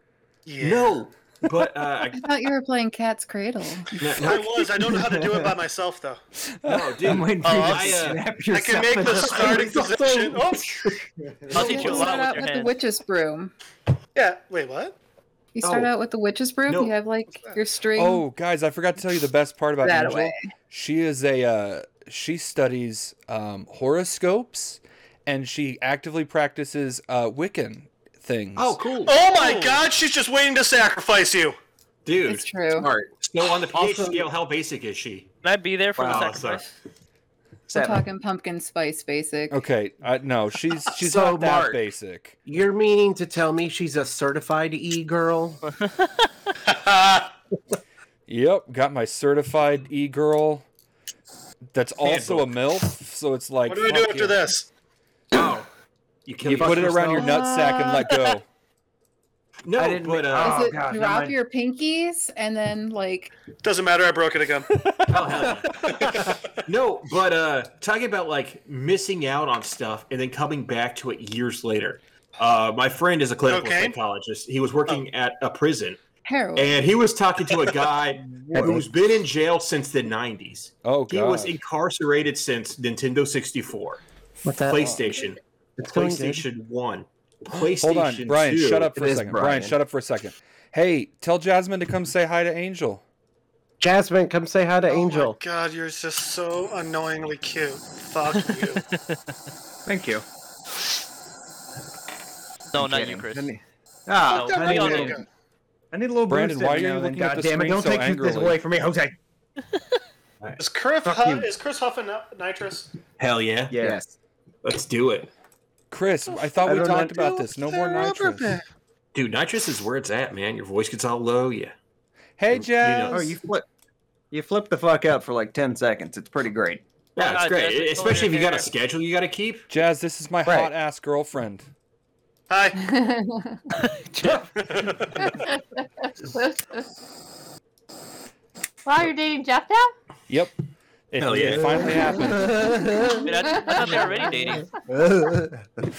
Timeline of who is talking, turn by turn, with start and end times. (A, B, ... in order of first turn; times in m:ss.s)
0:00.5-0:01.0 A
0:00.6-0:02.3 B
0:02.1-0:04.0 C
0:04.0-0:04.6 B
0:04.2-0:06.2 A
0:04.9-0:05.4 D
0:06.5-0:07.2 E
0:06.7-0:08.2 B
0:07.0-0:10.4 D
0:07.4-0:07.7 A
0:07.4-0:07.9 F
0:08.5-0:11.0 A
0:11.5-0:12.8 F
0:11.6-0:13.5 C
0:11.6-0:12.2 B
0:14.2-0:15.0 A
0:15.6-0:18.3 C
0:15.6-0:15.9 B
0:16.7-0:16.9 B
0:18.0-0:28.8 E
0:19.8-0:20.5 C
0:28.6-0:29.2 B
0:29.1-0:31.6 A
0:29.3-0:29.8 F
0:32.1-0:32.5 B
0:32.3-0:32.9 C
0:32.8-0:33.1 G
0:33.2-0:35.3 B
0:33.7-0:34.2 G
0:35.4-0:36.7 F
0:36.0-0:36.4 D
0:36.0-0:36.6 B
0:37.7-0:38.0 D
0:37.7-0:39.6 C
0:39.5-0:42.4 E
0:41.0-0:41.8 G
0:42.5-0:45.6 G
0:46.6-0:47.3 A
0:48.3-0:50.6 E
0:51.7-0:54.4 E
0:52.0-0:52.6 B
0:53.7-0:54.7 A
0:55.3-0:55.7 B
0:56.2-0:57.2 B
0:56.4-0:57.4 D
0:56.5-0:58.4 E
0:57.2-0:58.1 C
0:59.7-1:00.8 B
0:59.8-1:01.4 D
1:00.4-1:03.3 C
1:03.6-1:04.8 A
1:05.1-1:06.1 B
1:05.9-1:06.4 A
1:06.7-1:16.0 B
1:13.5-1:14.0 A
1:16.2-1:16.8 C
1:16.5-1:24.0 B
1:18.5-1:18.9 G
1:20.8-1:21.5 E
1:24.5-1:25.0 G
1:24.6-1:28.9 B
1:25.8-1:26.5 G
1:27.8-1:33.0 E
1:29.0-1:29.7 D
1:33.8-1:35.4 G
1:34.9-1:38.8 A
1:39.9-1:40.2 D
1:42.7-1:43.5 F
1:42.8-1:45.2 D
1:44.3-1:45.2 F
1:44.3-1:45.3 A
1:45.9-1:49.2 D
1:46.3-1:48.6 E
1:50.6-1:52.9 A
1:51.0-1:51.5 D
1:53.2-1:53.7 B
1:53.7-1:54.0 D
1:53.8-1:54.1 G
1:54.6-1:55.3 B
1:55.9-1:58.6 E
1:56.6-1:57.4 D
1:57.0-1:58.6 G
1:59.1-2:01.8 B
2:02.4-2:03.4 E
2:02.8-2:03.3 B
2:03.1-2:03.6 D
2:04.3-2:06.8 D
2:07.2-2:09.7 B
2:07.2-2:08.7 F
2:09.7-2:11.7 E
2:10.4-2:10.7 D
2:12.5-2:12.8 A
2:12.8-2:13.6 C
2:13.8-2:14.5 F
2:14.6-2:15.2 A
2:16.3-2:16.8 H
2:18.8-2:19.9 H
2:20.3-2:20.5 E
2:21.1-2:22.7 E
2:21.2-2:21.8 B
2:21.5-2:23.1 D
2:23.2-2:24.7 F
2:23.5-2:24.0 H
2:24.9-2:25.6 D